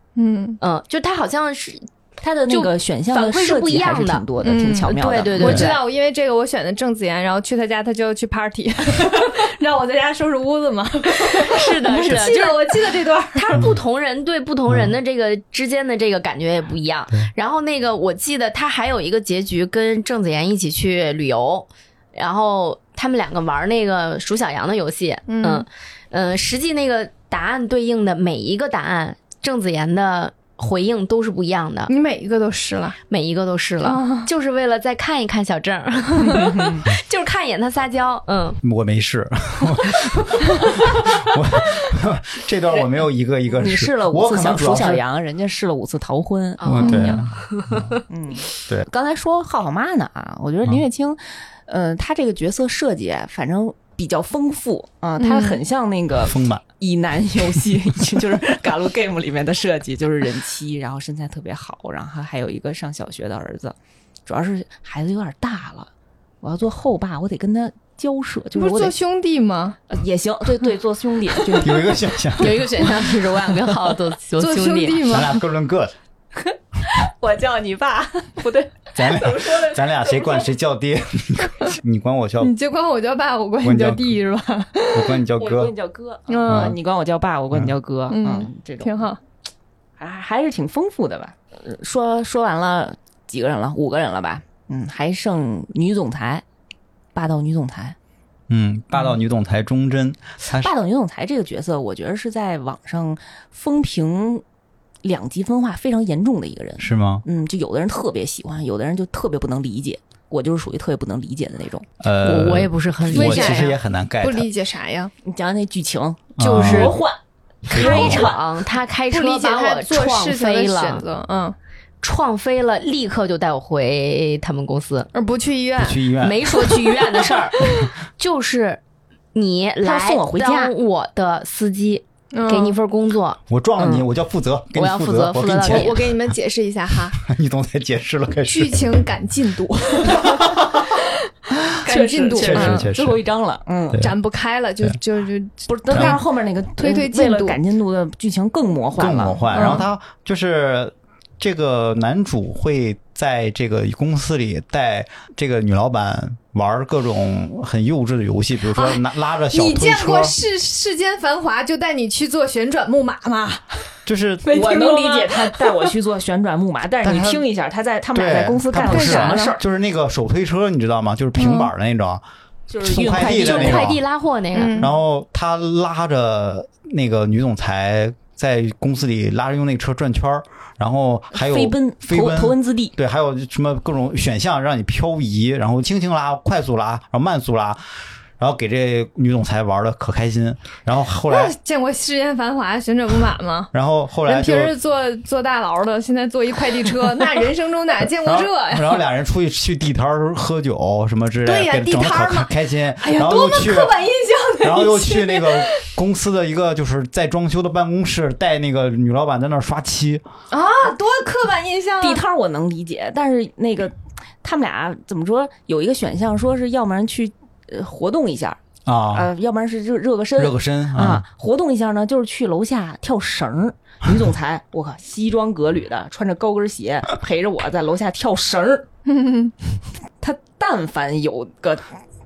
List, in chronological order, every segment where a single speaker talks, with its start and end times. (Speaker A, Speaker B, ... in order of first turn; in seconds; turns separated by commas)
Speaker A: 0.2-0.6, Speaker B: 0.6-1.9, Speaker C: 2.2-5.7, Speaker B: 2.5-5.8, Speaker A: 4.4-13.6, Speaker D: 5.4-5.7, Speaker B: 11.2-31.9, Speaker A: 25.3-25.7, Speaker A: 31.9-33.0, Speaker B: 33.1-38.6, Speaker A: 33.8-34.3, Speaker C: 36.5-36.8, Speaker D: 38.6-45.0, Speaker C: 43.5-47.2, Speaker B: 46.6-47.9, Speaker D: 46.7-47.9, Speaker A: 46.8-47.3, Speaker C: 48.1-63.8, Speaker A: 55.2-55.6, Speaker D: 56.3-56.6, Speaker C: 64.3-65.9, Speaker C: 66.4-68.9, Speaker A: 68.5-69.8, Speaker C: 69.9-71.9, Speaker D: 71.6-72.7, Speaker B: 72.4-75.1, Speaker A: 74.4-75.4, Speaker D: 75.1-75.9, Speaker C: 76.4-80.5, Speaker D: 79.0-82.5, Speaker A: 82.4-85.1, Speaker D: 83.6-84.2, Speaker D: 84.9-85.7, Speaker C: 85.4-89.1, Speaker A: 86.3-86.8, Speaker D: 86.5-86.8, Speaker A: 88.1-89.2, Speaker C: 90.0-96.4, Speaker C: 97.1-98.0, Speaker D: 98.5-100.7, Speaker C: 100.6-104.4, Speaker C: 105.0-111.9, Speaker D: 106.8-107.2, Speaker D: 112.0-114.5, Speaker B: 112.2-113.8, Speaker A: 113.1-115.1, Speaker C: 115.2-117.2, Speaker D: 116.4-117.0, Speaker B: 116.4-117.0, Speaker B: 117.7-121.1, Speaker C: 117.7-118.4, Speaker D: 117.7-118.3, Speaker A: 119.1-121.6, Speaker B: 122.0-125.1, Speaker A: 125.1-127.9, Speaker D: 125.8-126.7, Speaker B: 126.2-128.8, Speaker B: 129.3-134.1, Speaker C: 129.8-130.7, Speaker A: 132.3-132.8, Speaker D: 133.5-136.4, Speaker B: 134.8-136.2, Speaker A: 135.7-137.2, Speaker D: 137.2-138.9, Speaker A: 138.5-142.9, Speaker D: 140.2-140.8, Speaker C: 141.8-144.0, Speaker D: 142.3-143.2, Speaker D: 143.9-144.2, Speaker A: 144.0-146.2, Speaker C: 145.7-149.8, Speaker D: 145.9-146.2, Speaker A: 146.8-147.6, Speaker D: 149.0-160.4, Speaker A: 149.5-149.9, Speaker A: 158.7-163.7, Speaker D: 164.1-164.8, Speaker A: 164.5-165.9, Speaker C: 164.5-169.6, Speaker D: 167.0-167.5, Speaker D: 168.1-172.2, Speaker A: 168.7-169.6, Speaker A: 171.4-171.7, Speaker C: 172.7-174.0, Speaker D: 172.8-174.0, Speaker B: 173.2-174.9, Speaker A: 174.5-174.9, Speaker D: 174.8-187.8, Speaker C: 181.3-182.9, Speaker D: 188.4-191.6, Speaker A: 191.3-193.7, Speaker D: 193.7-194.7, Speaker A: 194.3-199.0, Speaker D: 198.2-204.0, Speaker A: 201.4-205.9, Speaker D: 204.6-210.2, Speaker A: 210.5-212.2, Speaker C: 212.0-218.6, Speaker D: 218.9-219.3, Speaker C: 219.1-228.9, Speaker D: 220.4-221.2, Speaker A: 229.1-229.5, Speaker C: 230.2-231.9